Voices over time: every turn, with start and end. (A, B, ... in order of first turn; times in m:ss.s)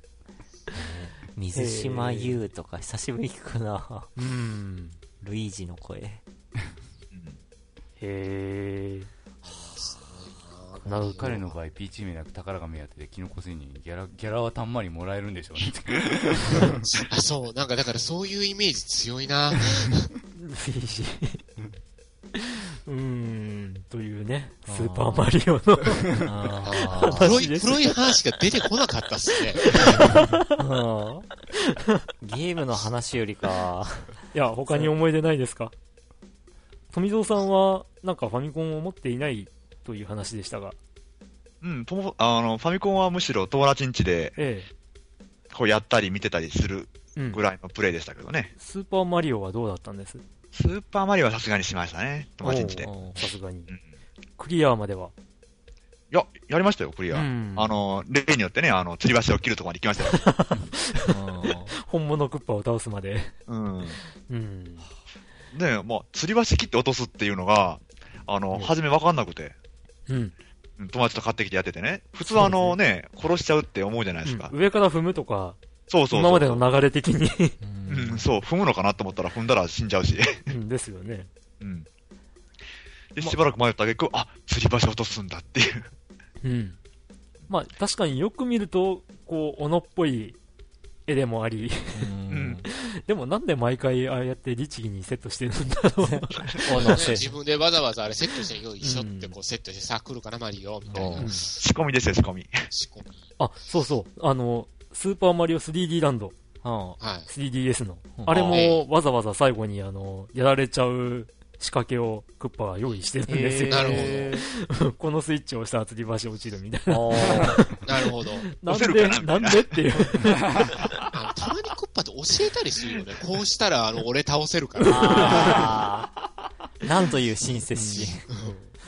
0:00.7-0:04.1 A
0:01.5-0:02.4 B
0:04.2-0:05.0 B
0:05.2-0:06.2 A
0:07.1-0:07.4 C
0:08.0-0:09.1 B
0:09.4-0:11.6 D
0:10.8-0:11.4 B
0:11.2-0:16.9 E
0:16.9-0:20.1 D
0:20.3-0:21.4 B
0:22.3-0:28.1 B
0:24.6-0:25.3 A
0:26.2-0:27.4 A
0:26.6-0:29.8 D
0:29.6-0:30.5 B
0:29.7-0:31.3 A
0:32.2-0:34.9 A
0:34.3-0:35.7 B
0:36.9-0:40.8 B
0:41.6-0:44.4 C
0:44.4-0:44.7 B
0:45.5-0:48.5 C
0:47.2-0:47.4 B
0:48.6-0:50.2 B
0:50.5-0:52.9 C
0:52.4-0:53.7 B
0:52.8-0:53.2 A
0:54.4-0:55.1 B
0:56.1-1:00.3 C
0:57.1-0:57.8 B
1:00.0-1:01.1 B
1:01.1-1:01.7 A
1:01.7-1:03.3 B
1:03.5-1:04.0 C
1:04.3-1:04.9 B
1:05.5-1:09.5 C
1:10.1-1:10.3 B
1:10.8-1:14.5 C
1:12.3-1:12.8 B
1:14.2-1:15.6 B
1:15.9-1:16.6 C
1:16.1-1:17.6 B
1:17.6-1:18.2 A
1:17.9-1:20.5 C
1:20.5-1:21.3 B
1:21.6-1:21.8 C
1:23.1-1:25.9 C
1:26.4-1:26.8 B
1:27.5-1:30.4 B
1:31.1-1:32.1 B
1:31.9-1:32.6 A
1:32.3-1:32.6 C
1:32.7-1:37.2 B
1:36.0-1:37.3 A
1:36.8-1:41.6 D
1:38.8-1:39.2 A
1:40.9-1:41.4 A
1:41.1-1:41.5 B
1:41.6-1:42.7 C
1:42.7-1:43.3 D
1:43.4-1:46.4 B
1:46.6-1:47.0 A
1:47.0-1:47.3 D
1:47.3-1:57.9 B
1:48.2-1:48.6 A
1:48.3-1:48.8 D
1:53.3-1:54.4 A
1:53.7-1:54.4 D
1:56.9-1:57.8 A
1:57.8-1:58.5 D
1:58.4-2:00.6 B
1:58.6-2:00.9 C
2:01.1-2:05.7 D
2:04.8-2:06.1 A
2:04.9-2:05.6 B
2:06.8-2:08.3 A
2:07.7-2:08.1 B
2:08.3-2:08.7 D